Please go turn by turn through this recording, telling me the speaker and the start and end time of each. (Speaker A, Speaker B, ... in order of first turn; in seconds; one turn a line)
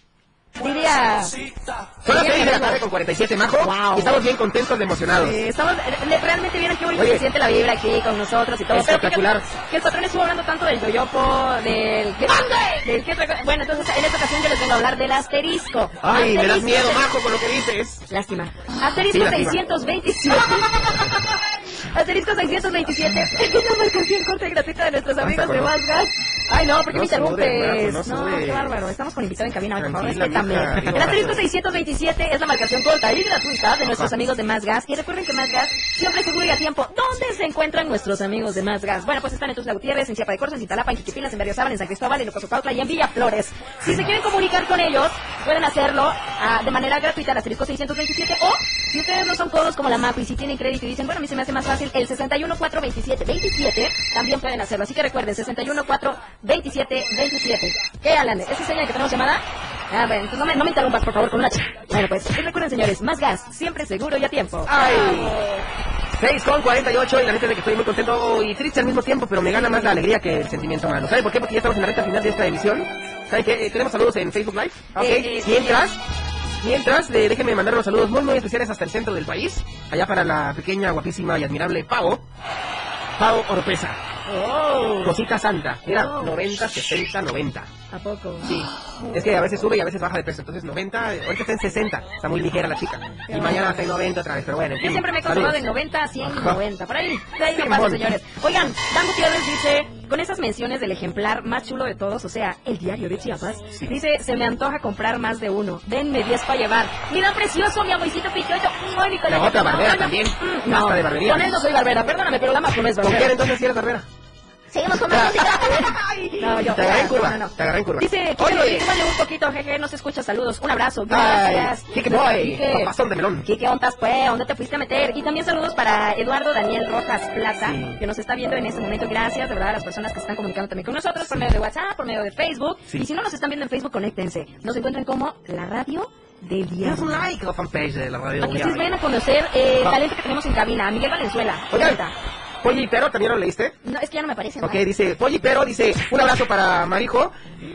Speaker A: 0.6-1.4
Speaker B: 2.0-5.4
Speaker A: 2.1-2.8
Speaker A: 3.6-4.2
Speaker A: 5.1-17.1
Speaker B: 6.9-7.2
Speaker B: 8.7-9.5
Speaker B: 12.3-12.8
Speaker B: 16.0-18.1
Speaker A: 18.1-21.1
Speaker B: 19.0-19.6
Speaker B: 20.8-21.2
Speaker A: 21.8-65.6
Speaker B: 25.2-25.8
Speaker B: 26.9-28.8
Speaker B: 29.7-31.5
Speaker B: 33.8-34.1
Speaker B: 43.8-44.1
Speaker B: 64.7-65.4
Speaker B: 66.1-76.0
Speaker A: 69.5-70.0
Speaker A: 75.0-75.8
Speaker B: 76.6-82.2
Speaker B: 83.2-84.0
Speaker A: 84.3-85.2
Speaker B: 85.0-87.7
Speaker A: 85.9-86.4
Speaker A: 87.9-88.5
Speaker B: 88.4-95.7
Speaker A: 93.3-93.8
Speaker A: 94.8-113.3
Speaker B: 96.2-96.6
Speaker B: 97.5-98.1
Speaker B: 109.3-111.5
Speaker B: 113.0-114.1
Speaker A: 114.7-122.9
Speaker B: 114.9-118.9
Speaker B: 121.1-123.5
Speaker A: 123.4-137.1
Speaker B: 127.6-128.0
Speaker B: 131.2-131.5
Speaker B: 136.8-138.9
Speaker A: 138.4-142.1
Speaker B: 141.7-142.0
Speaker B: 142.6-143.8
Speaker A: 143.8-144.8
Speaker B: 144.6-147.4